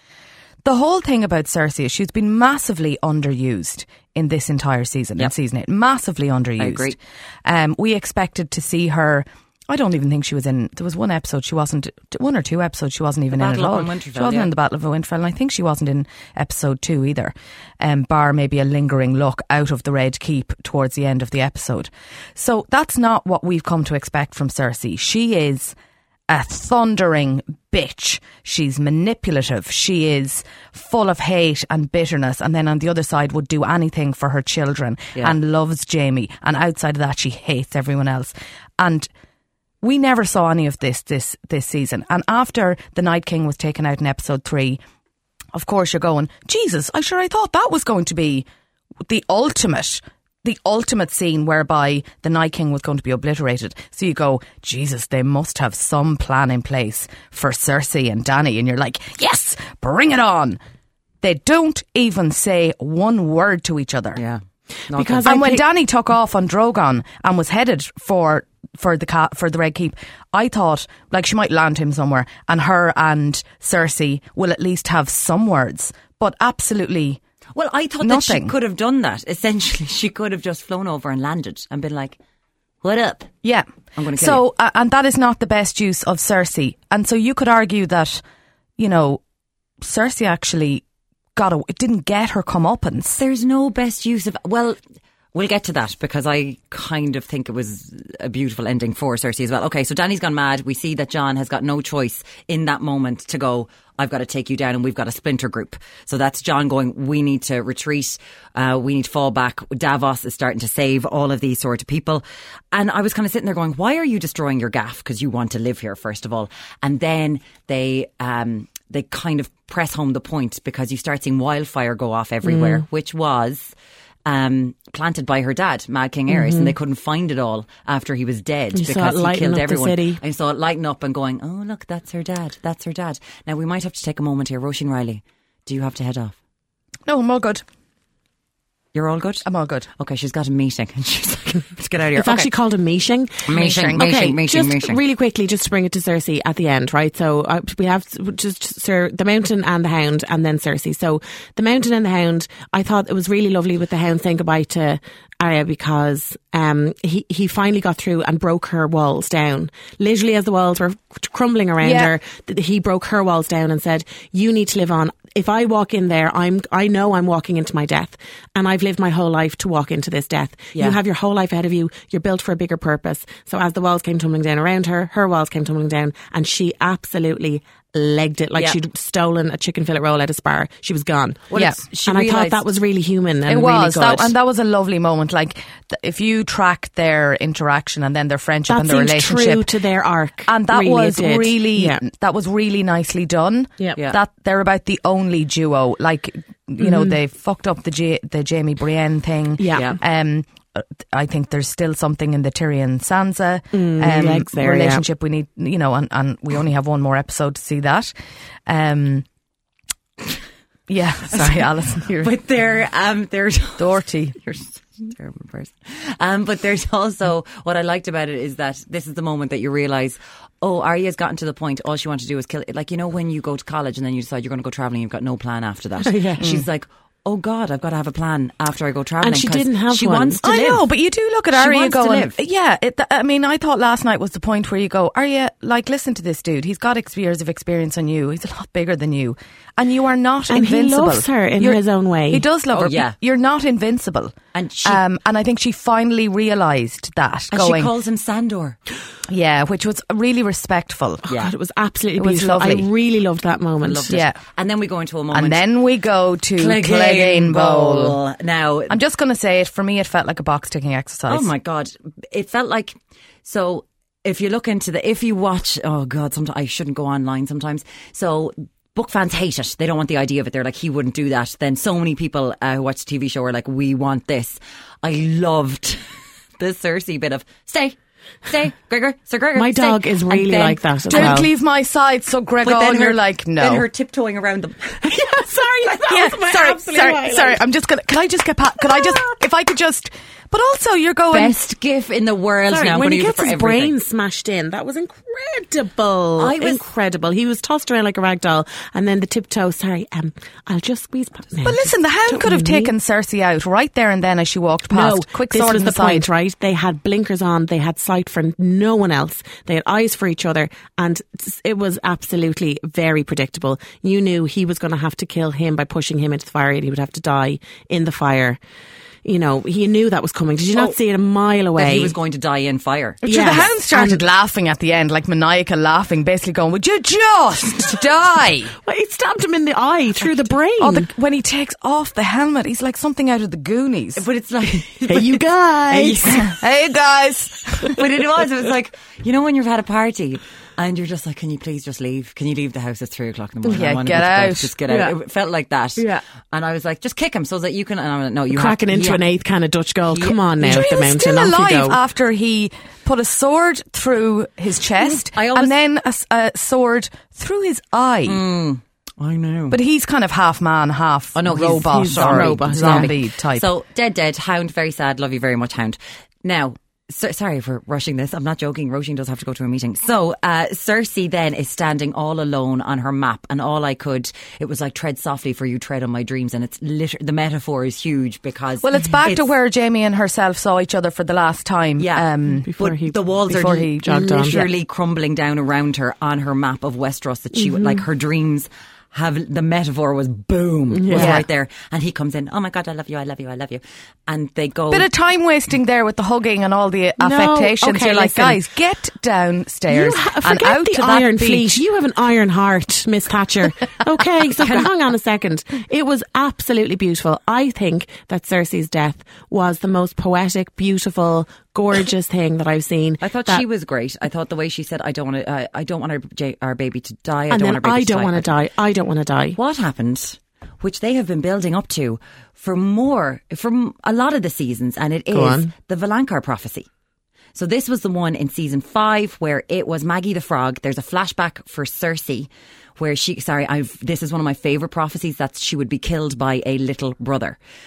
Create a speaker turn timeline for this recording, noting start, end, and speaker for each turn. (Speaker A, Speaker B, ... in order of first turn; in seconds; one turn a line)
Speaker A: 0.7-25.8
Speaker B: 6.6-7.0
Speaker B: 13.3-14.5
Speaker A: 26.3-39.1
Speaker A: 39.8-44.8
Speaker A: 45.5-48.5
Speaker A: 49.1-60.6
Speaker A: 61.2-64.2
Speaker B: 64.2-65.3
Speaker C: 64.9-65.6
Speaker A: 65.3-77.2
Speaker B: 77.5-82.2
Speaker A: 78.0-78.5
Speaker B: 82.8-83.3
Speaker A: 83.4-88.2
Speaker B: 84.0-84.4
Speaker A: 88.8-89.2
Speaker A: 89.8-90.8
Speaker A: 91.4-93.2
Speaker B: 93.2-94.8
Speaker B: 95.3-123.7
Speaker C: 122.4-122.8
Speaker B: 124.2-136.4
Speaker C: 126.3-126.7
Speaker C: 128.7-130.2
Speaker A: 137.1-137.6
Speaker B: 138.9-139.4
Speaker A: 139.4-139.9
Speaker B: 140.0-142.4
Speaker C: 142.2-184.3
Speaker B: 143.5-145.0
Speaker A: 143.5-144.4
Speaker A: 161.8-162.1
Speaker B: 181.5-182.7
Speaker A: 181.6-181.8
Speaker A: 183.5-189.7
Speaker C: 188.7-192.0
Speaker A: 190.5-208.1
Speaker C: 196.8-197.2
Speaker C: 199.6-200.0
Speaker C: 203.7-205.1
Speaker A: 208.7-209.2
Speaker A: 210.9-212.3
Speaker B: 212.1-230.8
Speaker A: 213.8-214.4
Speaker C: 226.0-226.4
Speaker C: 229.2-230.4
Speaker A: 230.4-244.3
Speaker B: 231.5-232.4
Speaker C: 240.5-242.4
Speaker B: 242.7-243.2
Speaker B: 244.5-245.0
Speaker A: 244.8-247.9
Speaker B: 247.5-248.8
Speaker A: 249.3-251.3
Speaker B: 251.3-251.5
Speaker C: 251.3-254.2
Speaker A: 252.2-252.8
Speaker B: 253.8-255.6
Speaker A: 254.1-254.4
Speaker A: 255.3-258.2
Speaker B: 256.6-259.0
Speaker A: 258.9-261.5
Speaker B: 261.3-276.1
Speaker B: 276.6-281.4
Speaker C: 279.6-281.5
Speaker A: 281.1-283.9
Speaker B: 282.6-285.1
Speaker C: 285.0-287.6
Speaker A: 286.1-291.6
Speaker C: 288.8-289.3
Speaker B: 291.3-293.9
Speaker C: 292.7-302.9
Speaker B: 296.4-296.8
Speaker A: 301.6-306.3
Speaker C: 304.9-318.6
Speaker C: 319.2-322.1
Speaker B: 321.8-323.2
Speaker A: 323.2-328.7
Speaker C: 323.2-324.2
Speaker C: 328.8-331.1
Speaker A: 330.8-334.2
Speaker B: 334.2-336.5
Speaker C: 335.1-336.5
Speaker A: 336.3-338.0
Speaker B: 337.9-349.2
Speaker A: 343.6-344.7
Speaker C: 344.9-345.1
Speaker C: 346.0-346.2
Speaker C: 348.5-352.0
Speaker B: 350.1-350.4
Speaker A: 350.6-358.4
Speaker B: 355.0-355.8
Speaker B: 358.3-359.8
Speaker A: 359.7-363.6
Speaker B: 361.4-379.5
Speaker C: 361.9-363.1
Speaker A: 378.8-382.7
Speaker B: 382.0-395.1
Speaker C: 382.6-383.2
Speaker A: 383.5-384.6
Speaker C: 383.9-384.7
Speaker C: 387.6-388.0
Speaker C: 390.9-391.4
Speaker A: 391.1-391.5
Speaker A: 394.9-401.8
Speaker C: 397.2-398.6
Speaker C: 399.9-413.6
Speaker B: 404.6-404.9
Speaker B: 413.2-418.5
Speaker C: 417.5-419.6
Speaker B: 419.6-426.9
Speaker C: 425.3-425.7
Speaker B: 427.6-437.6